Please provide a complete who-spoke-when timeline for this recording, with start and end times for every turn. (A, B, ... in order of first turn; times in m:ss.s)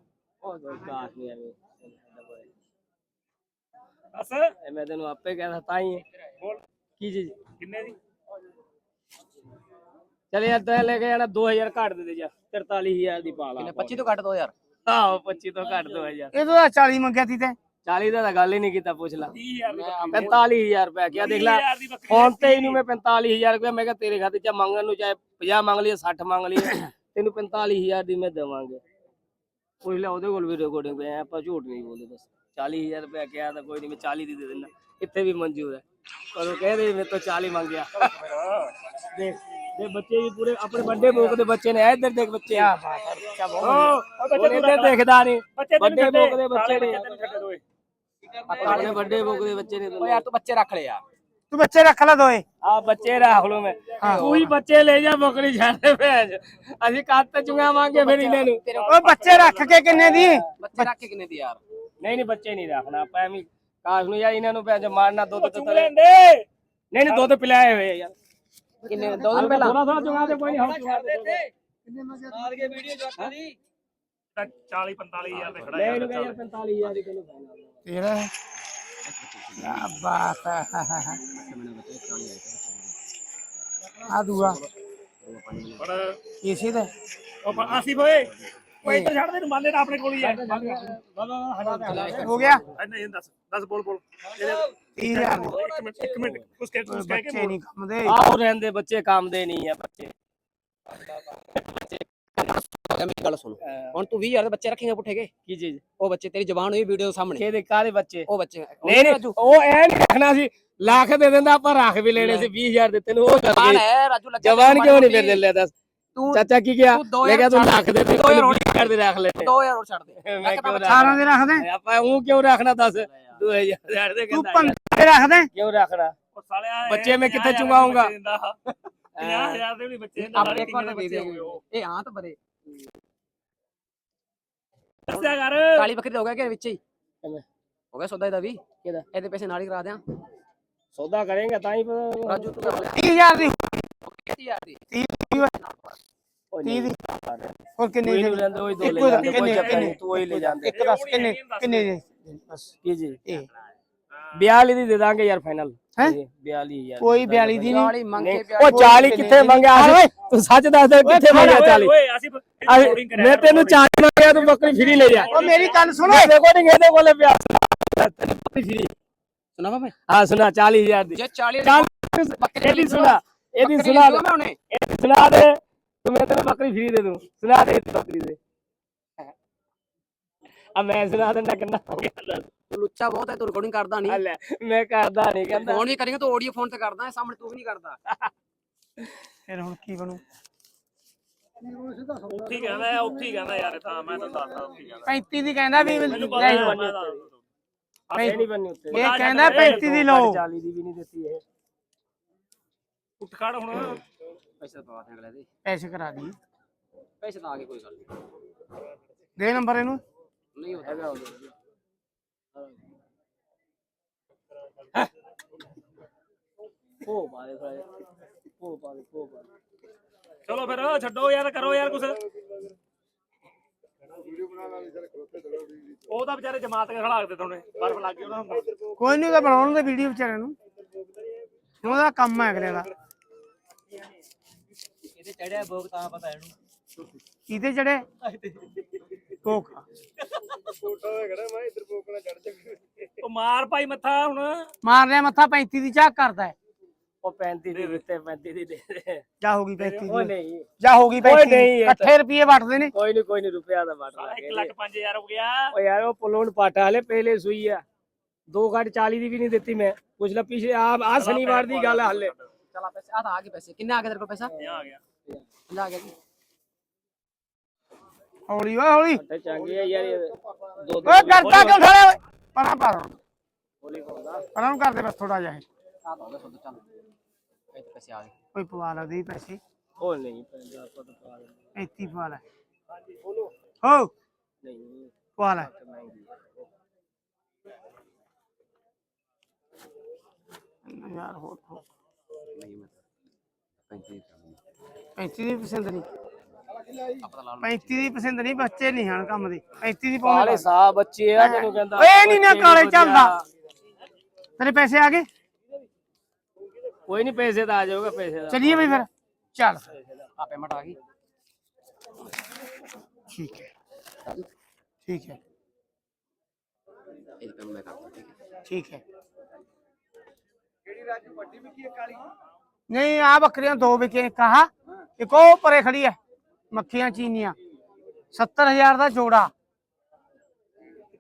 0:00.4-0:02.5 A
0:04.1-0:04.5 B
0:04.6-0:06.0 A
0:07.0-0:07.3 A
0:07.6-0:08.0 B
0:10.3-0:14.0 A
0:13.6-0:14.5 C
0:14.8-0:16.3 A
0:16.3-0:17.6 D
0:17.8-0:19.3 A
0:19.3-0:20.4 B
0:19.7-0:20.4 C
0:20.1-0:28.8 A
0:21.1-0:22.8 B
0:29.8-0:38.1 A
0:38.2-0:38.7 B
0:39.1-0:42.7 A
0:42.5-0:43.9 C
0:43.6-0:45.0 B
0:43.6-0:47.0 A
0:45.5-0:47.6 B
0:48.4-0:49.2 C
0:48.6-0:50.2 A
0:50.0-0:51.0 C
0:51.5-0:52.4 D
0:52.6-0:58.6 A
0:54.0-0:54.4 D
0:54.0-0:54.5 C
0:57.9-0:59.0 C
0:58.7-1:00.2 B
0:58.9-1:00.9 D
1:00.0-1:00.4 A
1:00.6-1:01.6 C
1:02.0-1:05.9 A
1:05.4-1:06.5 B
1:06.9-1:08.1 A
1:08.8-1:09.8 C
1:09.3-1:11.4 A
1:10.7-1:11.2 B
1:12.2-1:13.4 A
1:14.3-1:16.4 B
1:15.4-1:15.7 C
1:15.7-1:17.8 A
1:17.9-1:18.3 D
1:19.0-1:20.0 C
1:19.6-1:21.2 D
1:21.2-1:23.0 C
1:24.0-1:24.6 D
1:24.3-1:24.7 C
1:25.2-1:25.9 C
1:25.8-1:26.2 B
1:26.4-1:26.9 D
1:27.4-1:31.0 B
1:30.2-1:32.6 A
1:31.7-1:32.1 B
1:31.7-1:32.6 C
1:32.2-1:32.6 D
1:32.8-1:37.6 B
1:35.0-1:35.6 D
1:36.1-1:36.4 A
1:36.9-1:38.2 D
1:38.0-1:40.1 A
1:41.1-1:41.9 A
1:42.4-1:45.3 C
1:43.6-1:43.9 A
1:45.4-1:45.8 A
1:46.0-1:47.5 C
1:47.4-1:48.3 A
1:48.3-1:49.4 C
1:48.8-1:53.8 A
1:52.2-1:52.5 C
1:53.5-1:55.4 C
1:54.4-1:55.7 A
1:56.1-2:01.2 C
1:56.3-1:59.5 A
2:00.2-2:04.8 A
2:00.8-2:01.6 D
2:03.0-2:03.4 C
2:04.3-2:05.5 D
2:05.5-2:06.1 A
2:06.3-2:08.6 B
2:06.9-2:08.1 A
2:09.2-2:09.6 A
2:09.2-2:11.6 B
2:10.2-2:12.4 C
2:15.0-2:15.9 B
2:15.1-2:16.8 C
2:17.9-2:20.0 C
2:20.9-2:22.9 A
2:22.2-2:26.0 C
2:22.9-2:23.7 D
2:24.9-2:25.5 D
2:26.5-2:30.7 A
2:26.6-2:26.9 D
2:27.8-2:32.7 D
2:29.1-2:30.0 B
2:30.6-2:32.0 B
2:32.8-2:33.2 A
2:34.3-2:41.9 A
2:37.0-2:37.9 D
2:37.6-2:39.6 C
2:38.6-2:40.1 D
2:41.0-2:43.8 B
2:41.2-2:41.7 D
2:42.6-2:48.9 A
2:44.8-2:45.9 B
2:45.2-2:46.3 D
2:49.6-2:49.9 C
2:50.1-2:58.4 A
2:51.1-2:54.6 C
3:00.7-3:02.4 A
3:02.7-3:04.2 C
3:04.1-3:05.9 A
3:05.5-3:08.0 C
3:09.5-3:10.2 D
3:12.2-3:15.1 B
3:15.0-3:16.8 D
3:15.7-3:17.2 A
3:16.1-3:17.4 B
3:18.1-3:18.4 B
3:18.2-3:21.4 A
3:18.9-3:19.9 B
3:18.9-3:20.4 D
3:23.2-3:24.0 B
3:24.6-3:25.5 C
3:25.6-3:26.3 D
3:27.2-3:28.1 C
3:29.4-3:30.0 D
3:30.5-3:31.2 C
3:30.8-3:31.5 A
3:37.0-3:37.8 A
3:38.6-3:39.5 A
3:40.4-3:42.2 B
3:46.1-3:48.7 B
3:49.0-3:50.5 D
3:51.8-3:52.9 D
3:55.3-3:56.4 C
3:55.5-3:56.4 A
3:57.5-3:58.0 D
3:59.4-3:59.8 D
4:00.8-4:01.7 B
4:01.3-4:02.8 A
4:03.2-4:04.7 B
4:04.8-4:06.5 D
4:07.2-4:09.2 A
4:07.7-4:08.0 B
4:09.4-4:12.9 D
4:10.0-4:10.7 A
4:11.2-4:12.1 A
4:12.9-4:14.7 A
4:14.2-4:15.7 B
4:15.7-4:17.8 A
4:18.5-4:22.3 A
4:21.2-4:22.4 B
4:22.7-4:24.5 C
4:24.6-4:25.0 B
4:25.7-4:26.2 C
4:28.5-4:29.2 D
4:29.2-4:31.8 A
4:31.0-4:33.1 D
4:33.8-4:34.5 A
4:34.5-4:35.6 D
4:36.0-4:36.8 C
4:37.7-4:38.3 C
4:38.5-4:39.6 D
4:40.0-4:41.6 A
4:41.8-4:42.4 D
4:43.8-4:44.1 D
4:44.6-4:46.5 A
4:45.4-4:45.7 D
4:50.8-4:51.8 D
4:52.5-4:53.0 C
4:53.9-4:54.6 C
4:55.2-4:56.1 D
4:57.0-4:58.2 C
4:57.6-5:00.7 D
5:00.2-5:03.4 A
5:01.4-5:03.3 D
5:04.6-5:05.3 D
5:07.1-5:09.0 A
5:08.5-5:09.8 D
5:10.4-5:11.0 C
5:13.3-5:13.7 D
5:15.0-5:15.4 D
5:17.4-5:18.3 C
5:18.7-5:19.0 D
5:22.9-5:26.2 D
5:26.7-5:27.5 D
5:28.3-5:29.5 D